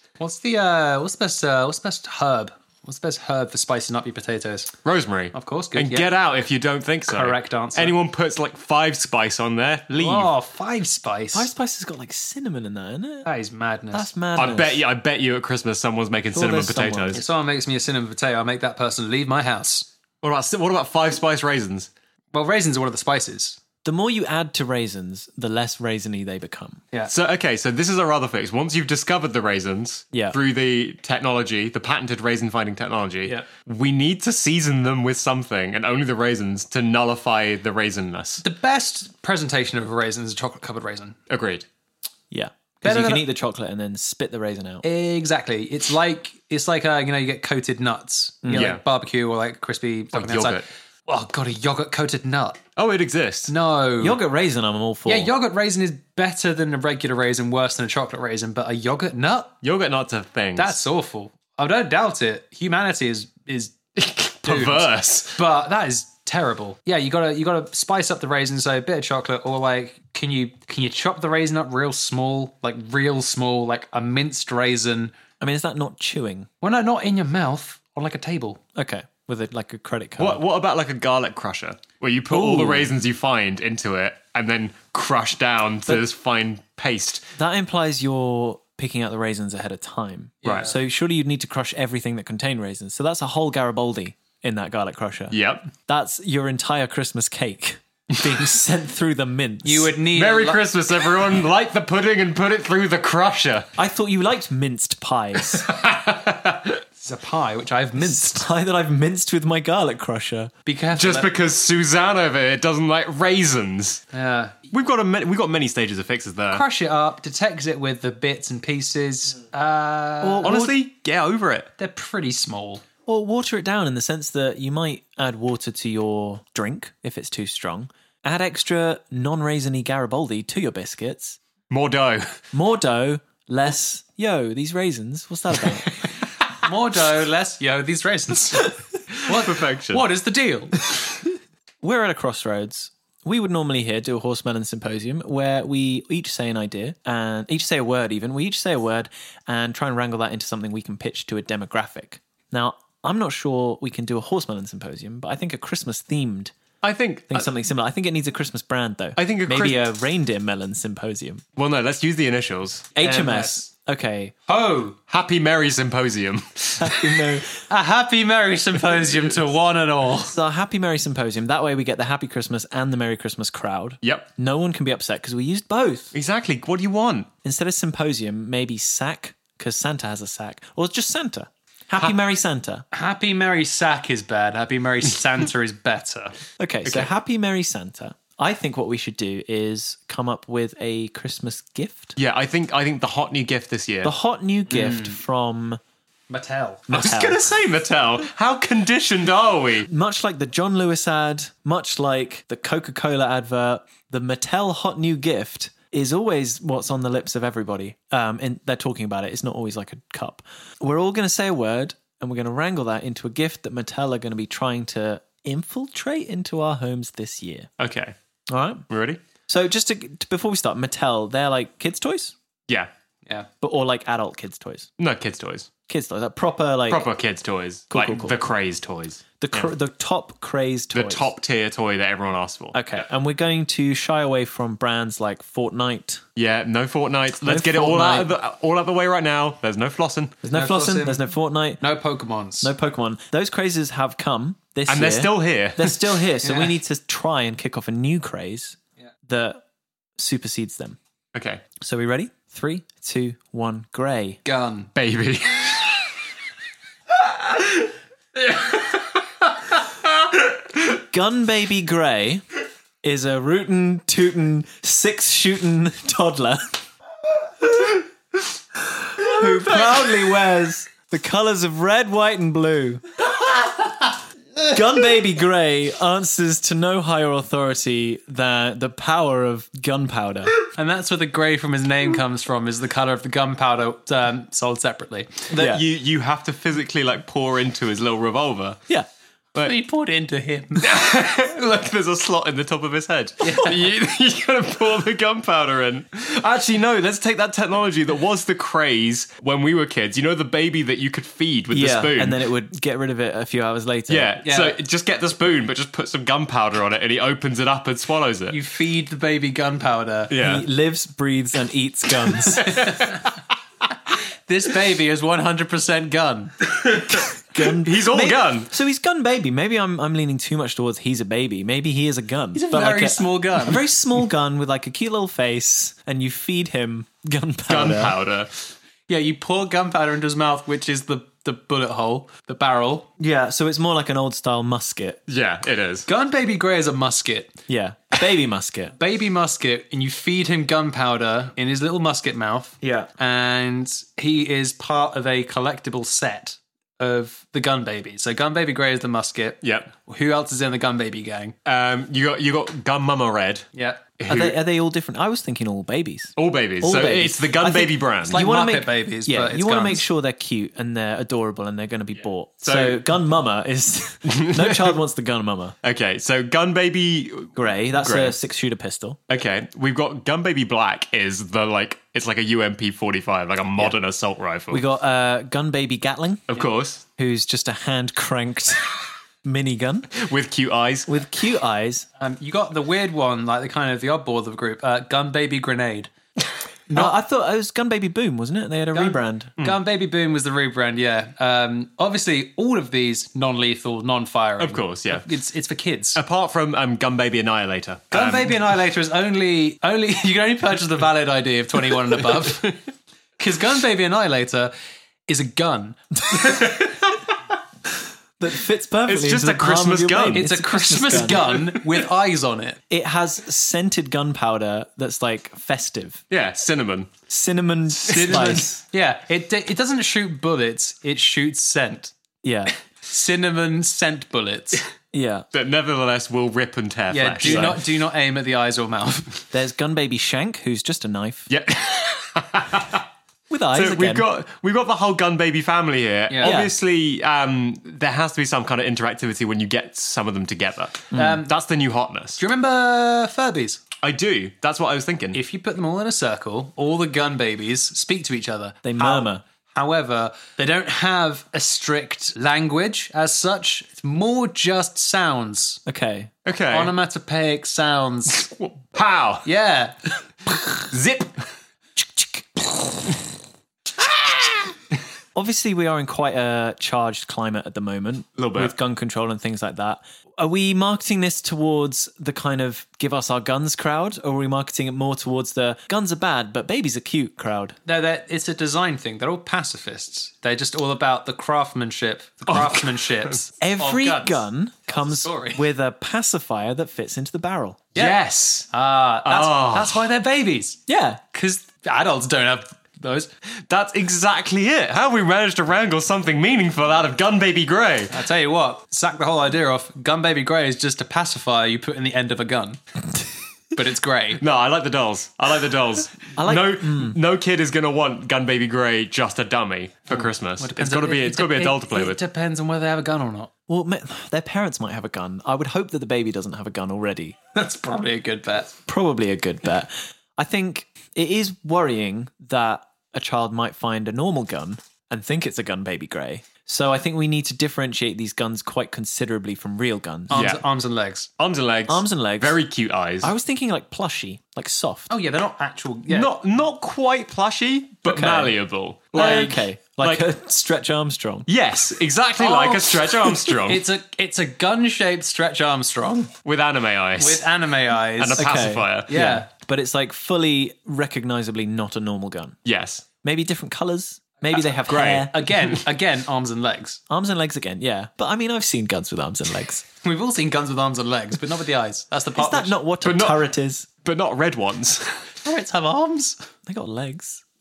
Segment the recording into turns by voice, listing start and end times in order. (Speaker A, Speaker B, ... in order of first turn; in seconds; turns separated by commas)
Speaker A: 0.2-4.7, Speaker B: 4.8-10.3, Speaker A: 5.3-6.1, Speaker A: 7.1-8.0, Speaker A: 9.9-11.5, Speaker C: 11.3-13.3, Speaker A: 13.2-14.1, Speaker C: 13.9-14.8, Speaker B: 14.4-17.2, Speaker C: 16.3-17.2, Speaker A: 17.1-19.9, Speaker B: 20.2-21.9, Speaker A: 22.3-23.6, Speaker C: 23.8-26.8, Speaker B: 27.1-38.4, Speaker A: 38.4-41.2, Speaker B: 41.3-41.6, Speaker C: 42.3-44.9, Speaker A: 42.8-43.3, Speaker A: 44.8-52.6, Speaker C: 48.4-48.7, Speaker B: 48.5-48.8, Speaker B: 50.1-50.7, Speaker B: 52.8-53.5, Speaker A: 53.5-54.2, Speaker C: 54.0-55.3, Speaker A: 55.0-59.5, Speaker B: 59.6-60.8, Speaker A: 60.5-63.7, Speaker B: 64.0-65.4, Speaker A: 64.4-75.1, Speaker C: 75.4-76.5, Speaker A: 76.6-78.6, Speaker C: 78.7-80.4, Speaker B: 80.2-87.2, Speaker C: 82.3-82.9, Speaker C: 87.4-99.9, Speaker A: 90.4-90.7, Speaker B: 90.4-90.7, Speaker B: 95.3-95.7, Speaker A: 99.6-100.6, Speaker B: 100.1-103.7, Speaker C: 103.8-105.7, Speaker B: 105.5-106.8, Speaker A: 107.0-108.5, Speaker C: 108.0-110.5, Speaker A: 110.6-111.3, Speaker B: 111.0-114.0, Speaker A: 114.1-114.6, Speaker B: 114.7-116.6, Speaker A: 116.5-120.5, Speaker C: 120.2-120.8, Speaker B: 120.4-121.7, Speaker A: 121.8-122.8, Speaker C: 123.0-131.4, Speaker B: 131.7-132.4, Speaker C: 132.5-135.9, Speaker A: 136.6-140.8, Speaker B: 139.3-140.0, Speaker C: 141.8-156.5, Speaker B: 156.8-157.5, Speaker C: 157.3-161.4, Speaker B: 159.2-159.9, Speaker B: 161.6-162.9, Speaker C: 162.9-164.3, Speaker A: 163.0-163.7, Speaker A: 164.5-165.0, Speaker B: 165.1-167.4, Speaker C: 166.8-167.5, Speaker A: 167.7-170.4, Speaker C: 170.2-176.1, Speaker B: 174.0-174.3, Speaker B: 176.1-177.3, Speaker C: 177.4-182.8, Speaker A: 182.9-186.3, Speaker C: 186.6-192.2, Speaker B: 186.8-187.1, Speaker B: 192.2-194.1, Speaker C: 194.0-195.8, Speaker A: 194.7-195.2, Speaker A: 196.3-196.9, Speaker C: 196.9-197.4, Speaker B: 196.9-199.9, Speaker C: 199.9-217.7, Speaker B: 217.8-218.1, Speaker C: 218.5-218.8, Speaker B: 218.9-219.2, Speaker C: 219.5-222.3, Speaker C: 223.6-224.9, Speaker B: 225.0-225.7, Speaker C: 225.9-227.1, Speaker B: 226.9-229.7, Speaker C: 227.9-228.4, Speaker C: 229.4-231.3, Speaker B: 230.9-232.8, Speaker C: 232.7-236.2, Speaker B: 236.4-240.4, Speaker C: 237.4-238.3, Speaker C: 240.4-241.8, Speaker A: 240.5-241.2, Speaker A: 241.8-242.7, Speaker C: 242.6-249.6, Speaker B: 244.9-246.2, Speaker A: 246.4-246.7, Speaker C: 250.2-251.0, Speaker B: 251.3-251.6, Speaker C: 251.8-254.4, Speaker A: 254.4-254.9, Speaker B: 254.9-256.1, Speaker B: 258.4-259.0, Speaker C: 260.9-262.4, Speaker C: 263.0-266.8, Speaker C: 268.9-273.0, Speaker C: 274.7-280.6, Speaker A: 280.7-285.5, Speaker C: 285.5-285.8, Speaker B: 285.6-288.8, Speaker A: 289.6-290.9, Speaker B: 290.8-302.4, Speaker A: 293.4-293.8, Speaker C: 301.7-304.4, Speaker B: 304.1-308.6, Speaker A: 304.4-304.8, Speaker A: 308.5-310.3, Speaker B: 310.3-310.6, Speaker C: 310.4-312.9, Speaker B: 312.6-313.2, Speaker A: 312.7-313.0, Speaker A: 314.5-316.6, Speaker B: 316.8-318.7, Speaker C: 317.3-328.2, Speaker A: 322.5-323.8, Speaker B: 327.7-328.6, Speaker A: 329.1-333.1, Speaker C: 333.2-335.2, Speaker B: 335.3-336.1, Speaker A: 336.1-337.6, Speaker C: 337.7-338.9, Speaker A: 339.0-351.6, Speaker C: 342.8-343.1, Speaker B: 349.6-349.9, Speaker B: 351.6-353.7, Speaker A: 353.7-354.0, Speaker B: 354.2-354.6, Speaker C: 354.3-365.7, Speaker B: 356.4-358.4, Speaker A: 358.3-360.1, Speaker B: 362.6-363.0, Speaker B: 364.3-364.9, Speaker B: 365.8-368.4, Speaker C: 367.6-369.2, Speaker B: 369.3-374.8, Speaker C: 374.7-376.5, Speaker B: 376.5-377.0, Speaker C: 377.2-380.2, Speaker B: 380.1-381.1, Speaker C: 381.1-382.1, Speaker A: 382.2-386.1, Speaker C: 386.9-389.6, Speaker A: 388.9-396.2, Speaker B: 394.6-395.3, Speaker B: 396.1-398.6, Speaker A: 398.1-402.8, Speaker A: 403.4-404.7, Speaker A: 405.3-406.6, Speaker C: 408.4-411.6, Speaker B: 409.1-410.5, Speaker A: 410.4-412.8, Speaker B: 411.1-411.8, Speaker C: 412.9-416.2, Speaker B: 416.3-417.1, Speaker C: 417.3-418.7, Speaker A: 418.0-422.1, Speaker B: 418.1-418.6, Speaker C: 422.4-422.7, Speaker A: 423.0-424.8, Speaker C: 425.1-425.4, Speaker B: 425.5-427.8, Speaker A: 427.1-429.5, Speaker C: 427.4-427.8, Speaker C: 429.5-431.5, Speaker B: 431.5-433.0, Speaker C: 433.5-434.3, Speaker B: 433.7-442.4, Speaker A: 436.3-436.6, Speaker C: 436.4-436.7, Speaker A: 441.1-441.5, Speaker C: 441.1-441.4, Speaker A: 442.4-443.8, Speaker B: 444.0-445.4, Speaker A: 445.3-455.8, Speaker C: 448.8-449.4, Speaker C: 455.9-456.3, Speaker B: 456.4-456.9, Speaker A: 456.7-458.5, Speaker B: 458.3-459.4, Speaker A: 459.4-460.1, Speaker B: 460.7-461.3, Speaker C: 462.0-462.6, Speaker C: 465.3-477.8, Speaker B: 468.4-468.7, Speaker A: 477.9-485.6, Speaker C: 483.6-487.8, Speaker B: 487.9-488.7, Speaker A: 487.9-493.3, Speaker B: 489.2-490.1, Speaker C: 490.9-491.2, Speaker B: 493.7-498.2, Speaker A: 498.1-502.8, Speaker A: 503.7-504.4, Speaker B: 504.4-512.2, Speaker C: 506.4-507.2, Speaker A: 510.6-513.5, Speaker C: 513.7-517.4, Speaker A: 517.5-518.7, Speaker C: 518.9-530.4, Speaker A: 530.3-531.3, Speaker B: 530.3-530.6, Speaker B: 531.4-533.3, Speaker C: 531.9-532.6, Speaker C: 533.2-535.1, Speaker A: 535.1-536.3, Speaker B: 536.1-540.3, Speaker C: 538.0-538.5, Speaker C: 539.1-541.5, Speaker B: 541.5-543.8, Speaker A: 542.4-546.3, Speaker B: 546.4-547.5, Speaker A: 547.2-548.5, Speaker B: 548.2-549.1, Speaker C: 548.4-552.6, Speaker A: 549.1-549.5, Speaker B: 552.6-553.0, Speaker C: 553.2-555.4, Speaker B: 554.9-555.8, Speaker A: 555.0-557.0, Speaker C: 557.1-559.8, Speaker A: 560.0-562.8, Speaker C: 562.4-563.9, Speaker B: 563.0-563.4, Speaker B: 564.0-565.3, Speaker A: 565.4-566.4, Speaker C: 566.6-567.4